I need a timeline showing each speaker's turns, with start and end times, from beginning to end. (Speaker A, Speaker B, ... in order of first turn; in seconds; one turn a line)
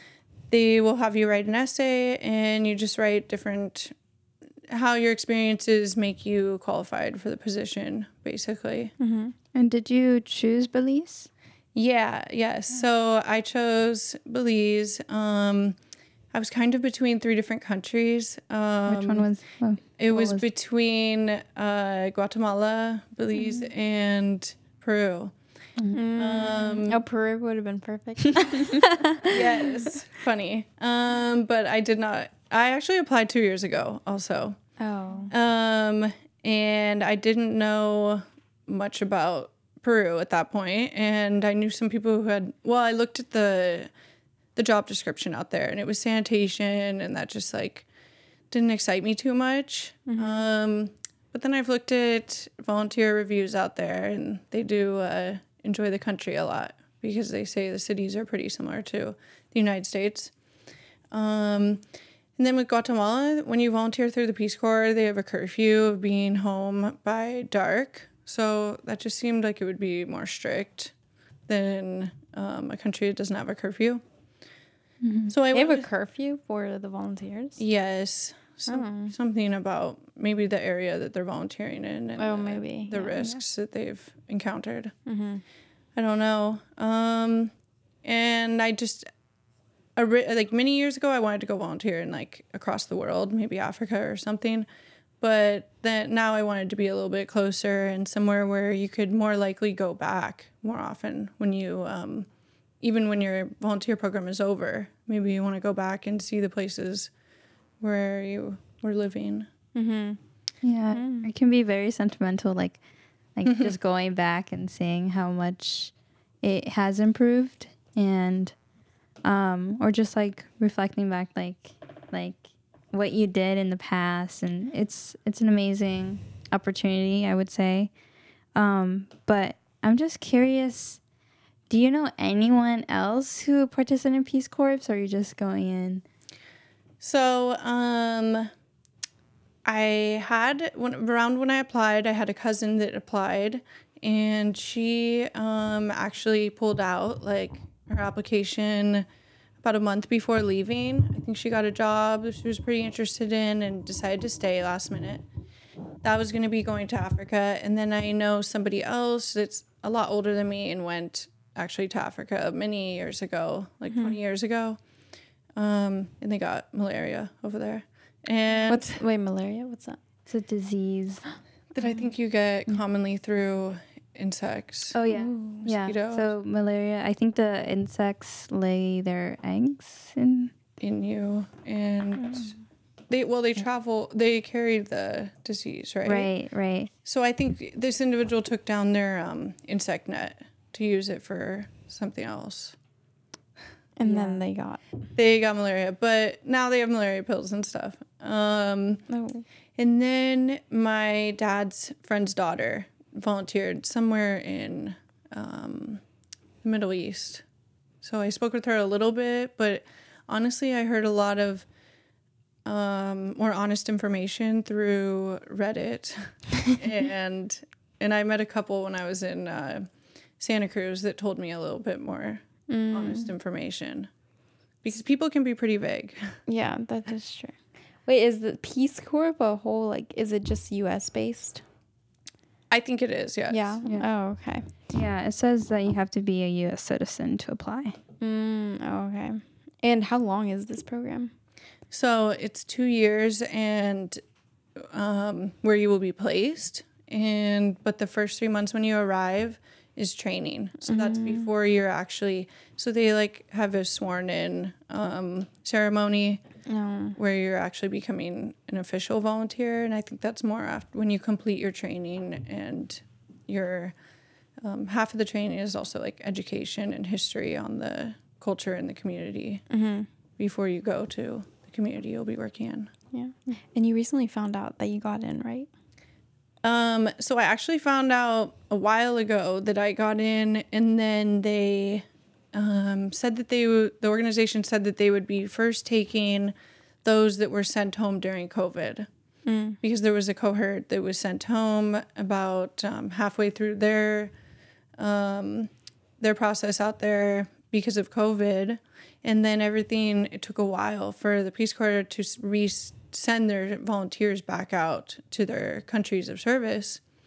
Speaker A: 0.5-3.9
Speaker A: 4.7-8.9
Speaker B: 9.0-9.3
Speaker C: 9.5-11.3
Speaker A: 11.7-15.8
Speaker A: 16.3-19.3
Speaker C: 18.9-20.4
Speaker A: 20.0-25.3
Speaker B: 25.9-29.4
Speaker A: 26.1-27.0
Speaker A: 29.2-34.6
Speaker B: 34.8-35.3
Speaker A: 35.3-43.9
Speaker A: 44.5-47.9
Speaker A: 48.5-60.3
Speaker B: 50.1-50.4
Speaker A: 61.1-61.8
Speaker A: 62.4-70.9
Speaker A: 71.5-74.0
Speaker C: 75.0-75.3
Speaker A: 75.3-75.8
Speaker B: 75.5-77.6
Speaker A: 77.6-84.9
Speaker B: 78.7-79.1
Speaker B: 82.2-83.2
Speaker B: 85.0-85.4
Speaker A: 86.0-87.5
Speaker A: 88.0-89.1
Speaker A: 90.0-94.7
Speaker A: 95.2-102.3
Speaker A: 102.8-107.1
Speaker A: 107.8-109.5
Speaker B: 109.7-110.2
Speaker C: 110.6-112.8
Speaker B: 110.9-111.3
Speaker C: 113.3-118.5
Speaker C: 119.2-127.9
Speaker C: 128.5-131.0
Speaker C: 131.7-136.0
Speaker A: 137.0-138.5
Speaker A: 139.6-149.1
Speaker A: 149.6-155.2
Speaker A: 156.0-164.8
Speaker B: 163.9-164.2
Speaker A: 165.6-169.0
Speaker B: 168.7-170.0
Speaker C: 170.3-171.2
Speaker A: 171.7-175.0
Speaker C: 174.9-180.5
Speaker B: 175.1-175.7
Speaker A: 175.6-176.3
Speaker A: 180.8-182.5
Speaker A: 183.1-186.3
Speaker C: 186.0-186.9
Speaker A: 187.0-192.7
Speaker B: 194.0-194.8
Speaker C: 194.0-194.4
Speaker A: 195.1-199.1
Speaker B: 199.1-199.4
Speaker A: 199.8-206.0
Speaker A: 206.6-207.4
Speaker A: 208.0-211.7
Speaker A: 212.6-224.1
Speaker B: 222.7-223.3
Speaker A: 224.8-226.3
Speaker B: 226.5-231.6
Speaker A: 232.7-233.8
Speaker B: 233.5-234.7
Speaker C: 234.9-238.0
Speaker B: 238.2-241.3
Speaker A: 241.9-244.2
Speaker A: 244.8-256.4
Speaker B: 250.8-251.5
Speaker B: 256.7-257.2
Speaker A: 257.2-263.9
Speaker A: 264.6-269.6
Speaker B: 269.7-270.1
Speaker A: 270.4-272.9
Speaker B: 273.1-275.7
Speaker A: 276.6-289.1
Speaker B: 289.4-289.8
Speaker A: 289.8-294.3
Speaker A: 295.0-307.0